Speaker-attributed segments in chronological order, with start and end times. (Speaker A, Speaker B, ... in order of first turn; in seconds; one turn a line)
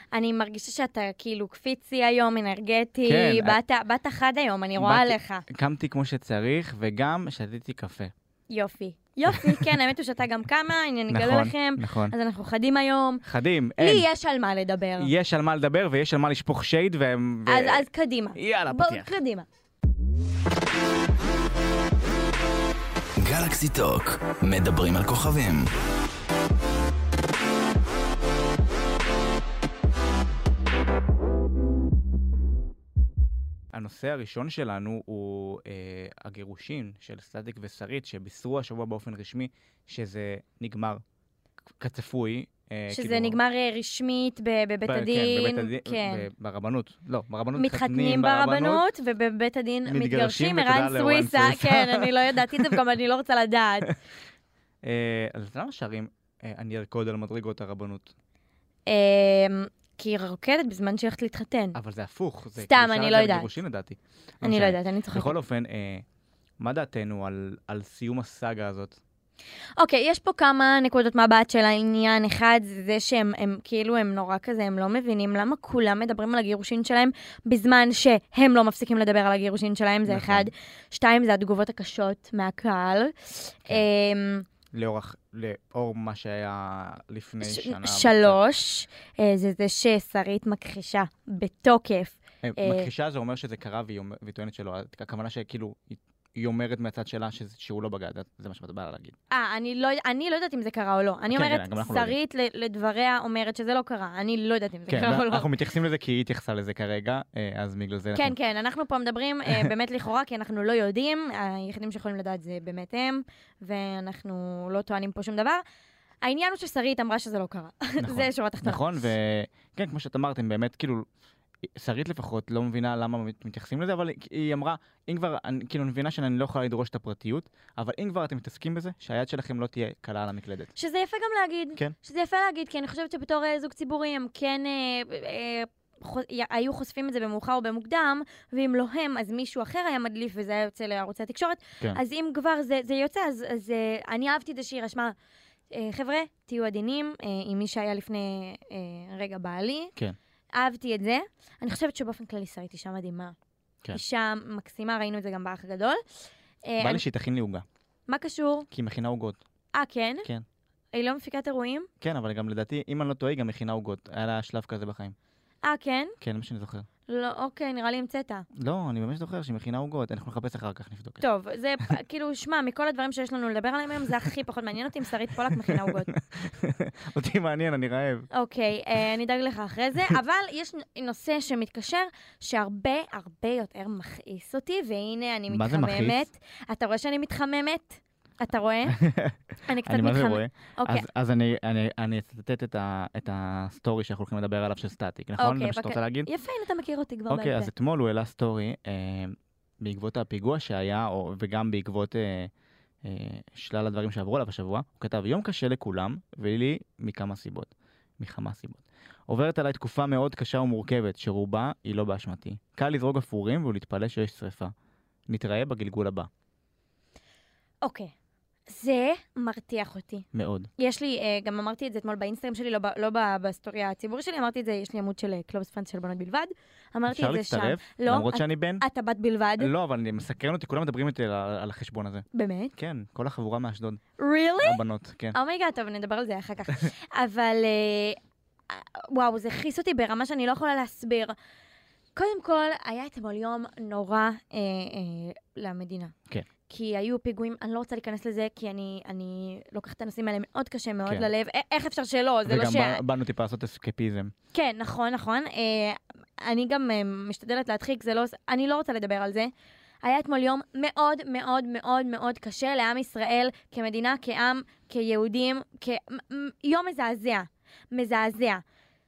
Speaker A: 0.1-5.4
Speaker B: 3.0-3.6
Speaker B: 4.8-8.1
Speaker A: 8.5-13.2
Speaker B: 9.3-9.7
Speaker B: 11.1-12.1
Speaker B: 13.2-14.0
Speaker A: 13.8-15.1
Speaker B: 15.0-17.8
Speaker A: 17.4-19.5
Speaker B: 18.4-19.1
Speaker C: 23.2-25.7
Speaker B: 33.7-41.0
Speaker B: 41.8-43.4
Speaker A: 42.9-46.3
Speaker B: 44.9-48.8
Speaker A: 47.5-53.9
Speaker B: 49.9-52.8
Speaker B: 54.8-58.1
Speaker A: 58.9-61.8
Speaker B: 61.7-66.0
Speaker A: 62.5-63.5
Speaker A: 64.4-65.4
Speaker B: 66.6-69.0
Speaker A: 69.8-84.5
Speaker B: 80.1-80.5
Speaker B: 84.7-88.4
Speaker A: 87.4-92.9
Speaker B: 92.4-99.2
Speaker A: 99.3-105.5
Speaker B: 101.3-102.1
Speaker B: 104.9-108.3
Speaker A: 108.1-115.6
Speaker A: 116.2-118.8
Speaker B: 118.0-121.0
Speaker B: 121.7-130.7
Speaker A: 130.8-145.1
Speaker A: 145.7-149.9
Speaker A: 150.6-153.3
Speaker A: 153.9-156.0
Speaker A: 156.6-157.0
Speaker B: 156.8-157.6
Speaker A: 158.1-158.7
Speaker B: 158.7-159.4
Speaker A: 159.7-160.3
Speaker A: 160.9-161.9
Speaker B: 162.0-165.1
Speaker A: 165.6-166.1
Speaker B: 166.2-166.9
Speaker A: 167.1-168.4
Speaker B: 168.5-171.2
Speaker A: 171.2-176.1
Speaker B: 175.5-178.3
Speaker A: 178.3-189.0
Speaker B: 185.5-186.2
Speaker B: 188.9-196.3
Speaker A: 189.7-191.0
Speaker A: 195.4-197.7
Speaker B: 197.3-202.5
Speaker B: 203.0-214.7
Speaker B: 215.3-216.3
Speaker A: 217.8-218.1
Speaker A: 218.7-220.3
Speaker B: 220.3-220.7
Speaker A: 220.8-229.7
Speaker B: 227.1-228.8
Speaker B: 229.6-234.0
Speaker A: 232.3-232.7
Speaker A: 234.2-234.8
Speaker B: 234.6-235.3
Speaker A: 235.3-238.2
Speaker A: 238.7-241.3
Speaker A: 242.1-246.1
Speaker A: 246.7-253.0
Speaker B: 252.4-254.3
Speaker A: 254.5-259.5
Speaker A: 260.0-268.6